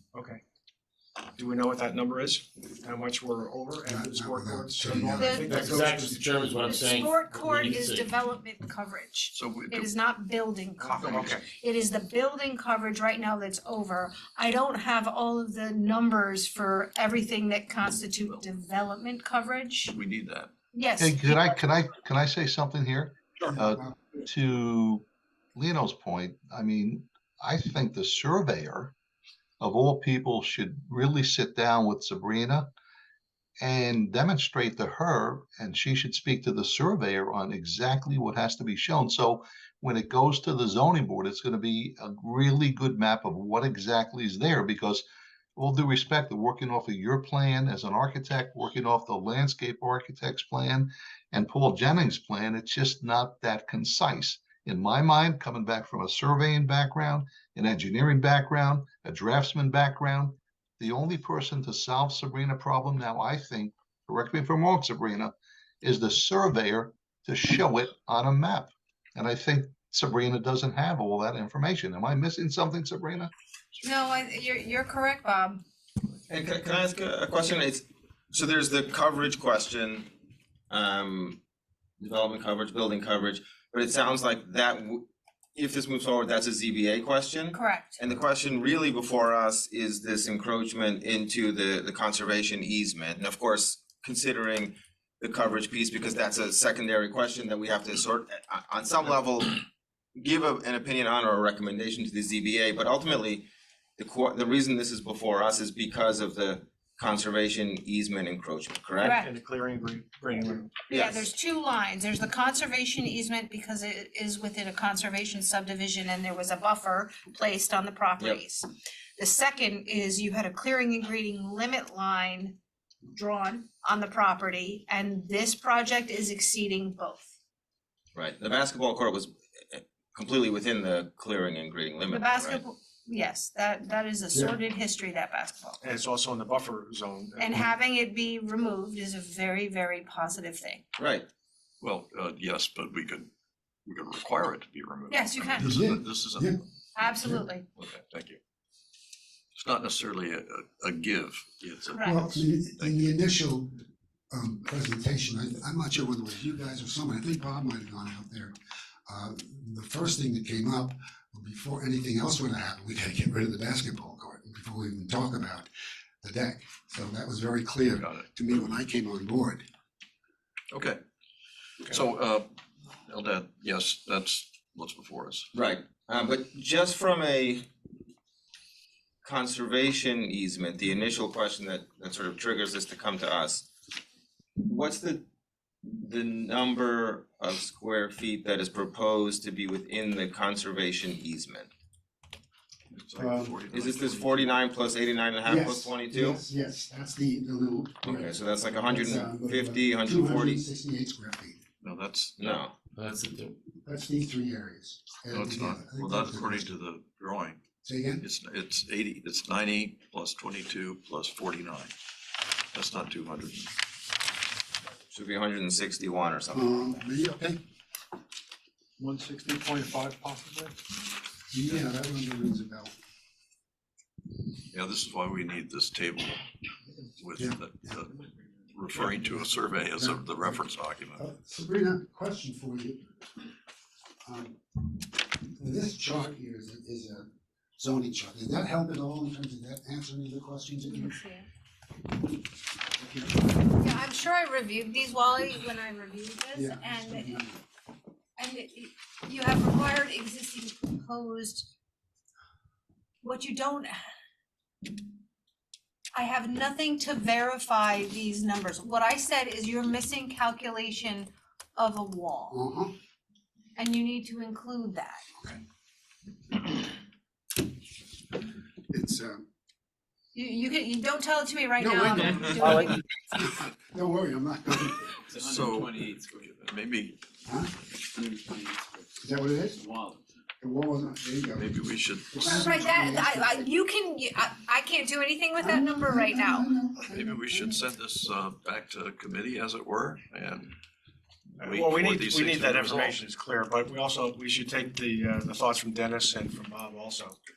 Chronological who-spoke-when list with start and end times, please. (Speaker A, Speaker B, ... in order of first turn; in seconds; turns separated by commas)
Speaker A: 0.1-0.4, Speaker A: 1.4-6.3, Speaker B: 3.9-5.8, Speaker C: 5.1-5.7, Speaker D: 5.5-8.1, Speaker C: 6.6-20.0, Speaker E: 9.3-9.9, Speaker A: 10.8-11.5, Speaker E: 19.9-20.5, Speaker C: 20.7-21.4, Speaker F: 21.0-28.9, Speaker B: 23.6-23.9, Speaker F: 29.6-32.7, Speaker F: 33.6-45.0, Speaker F: 45.6-73.3, Speaker C: 73.8-75.6, Speaker G: 76.3-80.1, Speaker G: 80.7-81.4, Speaker G: 82.0-85.0, Speaker G: 85.5-99.6, Speaker C: 87.5-88.0, Speaker G: 100.2-109.2, Speaker C: 109.0-109.3, Speaker A: 109.0-110.8, Speaker C: 110.9-122.6, Speaker G: 110.9-111.3, Speaker C: 123.1-127.3, Speaker G: 128.1-132.6, Speaker C: 132.1-135.8, Speaker A: 135.8-137.6, Speaker C: 137.4-140.8, Speaker G: 141.0-141.3, Speaker E: 141.8-143.3, Speaker E: 143.9-146.7, Speaker C: 145.1-145.8, Speaker B: 145.6-146.6, Speaker C: 146.9-147.7, Speaker E: 147.8-148.4, Speaker E: 149.6-153.1, Speaker C: 151.9-152.3, Speaker B: 152.0-153.8, Speaker B: 154.3-158.6, Speaker B: 159.1-165.7, Speaker B: 166.2-169.6, Speaker E: 167.9-168.2, Speaker E: 170.7-171.0, Speaker E: 171.8-172.5, Speaker E: 173.1-175.5, Speaker G: 175.5-177.7, Speaker G: 179.2-183.7, Speaker G: 184.6-185.2, Speaker G: 185.8-191.7, Speaker E: 192.9-194.6, Speaker B: 193.2-193.6, Speaker G: 193.7-196.4, Speaker B: 195.4-201.6, Speaker G: 198.0-200.6, Speaker E: 201.8-202.7, Speaker G: 202.4-202.7, Speaker D: 203.0-203.6, Speaker B: 203.8-206.7, Speaker E: 205.3-207.6, Speaker B: 207.8-208.3, Speaker E: 208.2-211.9, Speaker E: 212.7-213.7, Speaker G: 215.1-216.7, Speaker B: 216.5-217.6, Speaker A: 219.0-220.8, Speaker B: 221.5-222.9, Speaker E: 224.7-226.4, Speaker E: 227.2-228.2, Speaker B: 227.4-228.0, Speaker E: 228.7-231.2, Speaker B: 229.0-230.6, Speaker B: 231.2-233.1, Speaker B: 234.2-241.2, Speaker C: 240.8-241.5, Speaker B: 243.0-243.5, Speaker C: 243.7-247.4, Speaker B: 246.5-247.6, Speaker C: 248.4-251.7, Speaker C: 253.2-254.0, Speaker C: 256.1-262.6, Speaker B: 262.5-262.9, Speaker C: 263.8-265.2, Speaker B: 268.9-269.4, Speaker C: 270.3-273.0, Speaker B: 271.8-275.1, Speaker E: 275.3-277.2, Speaker D: 275.4-276.6, Speaker B: 277.4-277.8, Speaker D: 278.1-279.1, Speaker B: 279.2-279.9, Speaker D: 279.7-280.2, Speaker B: 280.6-283.7, Speaker E: 281.6-282.5, Speaker C: 282.4-286.7, Speaker B: 285.6-287.8, Speaker E: 287.1-290.7, Speaker E: 291.6-293.2, Speaker A: 291.6-297.4